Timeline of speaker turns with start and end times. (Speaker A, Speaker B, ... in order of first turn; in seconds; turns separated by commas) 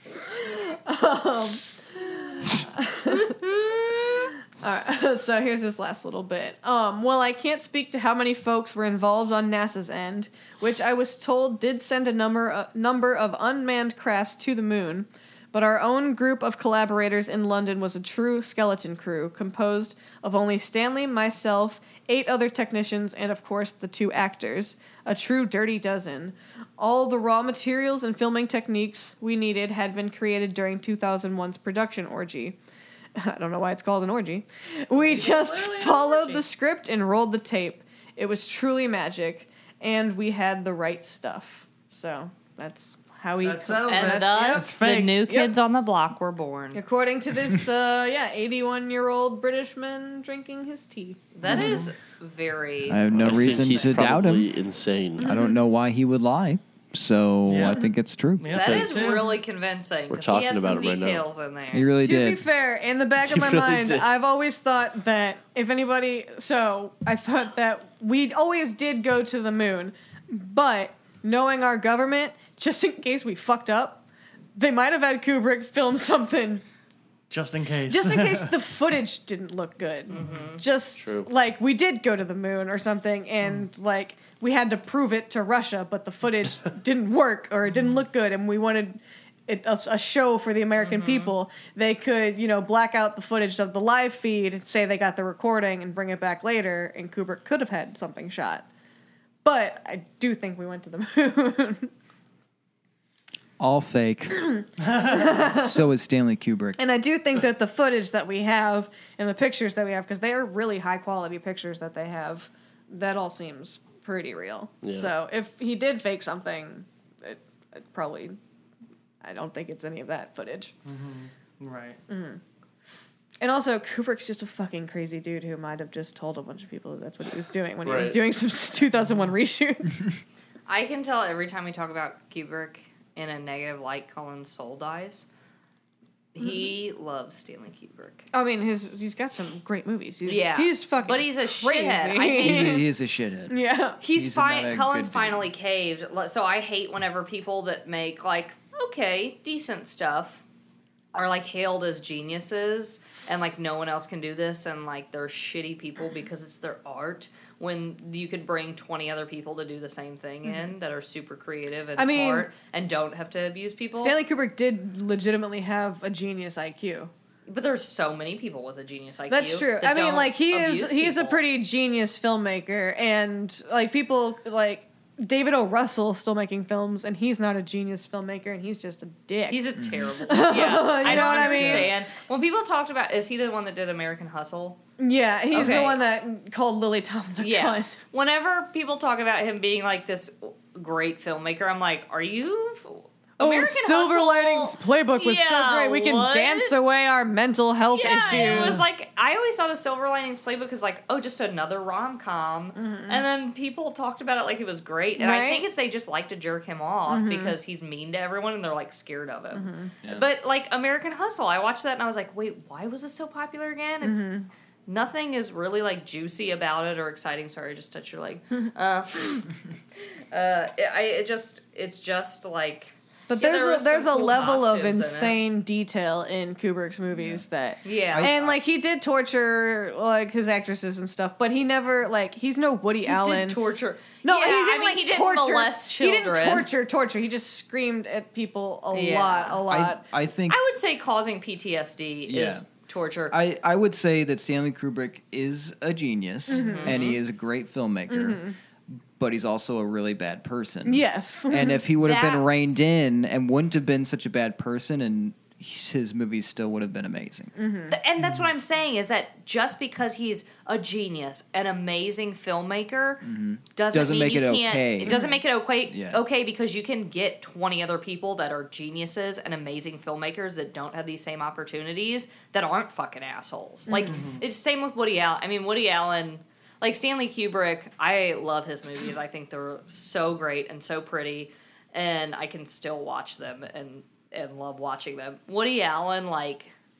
Speaker A: 0.2-32.6, Speaker A: 33.1-44.7, Speaker B: 34.9-36.5, Speaker C: 43.4-45.2, Speaker B: 43.9-46.8, Speaker A: 45.2-45.5, Speaker A: 46.7-51.8, Speaker B: 51.3-53.7, Speaker C: 51.5-51.9, Speaker D: 52.9-54.5, Speaker E: 53.2-55.3, Speaker D: 55.2-58.5, Speaker C: 57.5-57.8, Speaker C: 58.4-59.3, Speaker B: 58.5-61.9, Speaker E: 58.5-59.2, Speaker E: 60.1-61.2, Speaker D: 61.7-62.4, Speaker A: 62.0-74.0, Speaker E: 63.3-64.0, Speaker A: 74.5-76.6, Speaker C: 77.3-78.5, Speaker A: 77.9-98.7, Speaker B: 80.1-80.6, Speaker C: 80.2-80.5, Speaker E: 81.0-81.3, Speaker B: 90.8-91.3, Speaker A: 99.4-101.9, Speaker D: 103.6-104.4, Speaker A: 104.5-105.8, Speaker C: 104.8-105.1, Speaker D: 105.4-106.8, Speaker A: 106.8-118.4, Speaker E: 114.8-115.1, Speaker A: 119.2-120.7, Speaker C: 120.8-122.0, Speaker A: 122.1-122.4, Speaker A: 123.4-130.1, Speaker E: 127.8-128.2, Speaker B: 130.7-135.2, Speaker B: 136.3-138.2, Speaker A: 138.3-142.8, Speaker B: 140.2-142.8, Speaker D: 142.4-145.5, Speaker A: 143.5-144.0, Speaker B: 144.0-150.4, Speaker B: 151.1-164.2, Speaker A: 160.4-160.7, Speaker A: 161.9-162.5, Speaker A: 163.9-167.1, Speaker B: 167.5-171.4, Speaker A: 169.3-182.0, Speaker B: 179.5-184.8, Speaker D: 179.8-180.0, Speaker D: 181.0-181.9, Speaker A: 185.0-188.0, Speaker B: 185.5-186.0, Speaker D: 185.5-185.9, Speaker B: 187.4-196.8, Speaker A: 193.4-198.8, Speaker B: 197.9-214.2, Speaker C: 198.4-198.8, Speaker A: 202.8-203.2, Speaker A: 205.2-205.7, Speaker A: 207.1-207.6, Speaker A: 209.5-209.9, Speaker A: 214.0-214.5, Speaker B: 214.9-219.5, Speaker B: 220.3-225.4, Speaker A: 223.3-233.6, Speaker B: 227.8-228.3, Speaker D: 228.1-228.6, Speaker B: 233.1-236.7, Speaker A: 234.2-240.0, Speaker B: 238.9-239.6, Speaker D: 239.7-240.6, Speaker B: 240.5-243.3, Speaker D: 242.3-242.7, Speaker D: 243.3-257.5, Speaker A: 246.5-247.1, Speaker B: 246.5-247.2, Speaker A: 248.1-248.5, Speaker A: 250.8-251.8, Speaker B: 252.0-252.8, Speaker A: 257.6-257.9, Speaker B: 257.9-263.2, Speaker D: 263.2-265.2, Speaker B: 263.8-286.7, Speaker A: 265.0-265.4, Speaker D: 265.8-266.2, Speaker A: 273.9-274.2, Speaker C: 274.0-274.4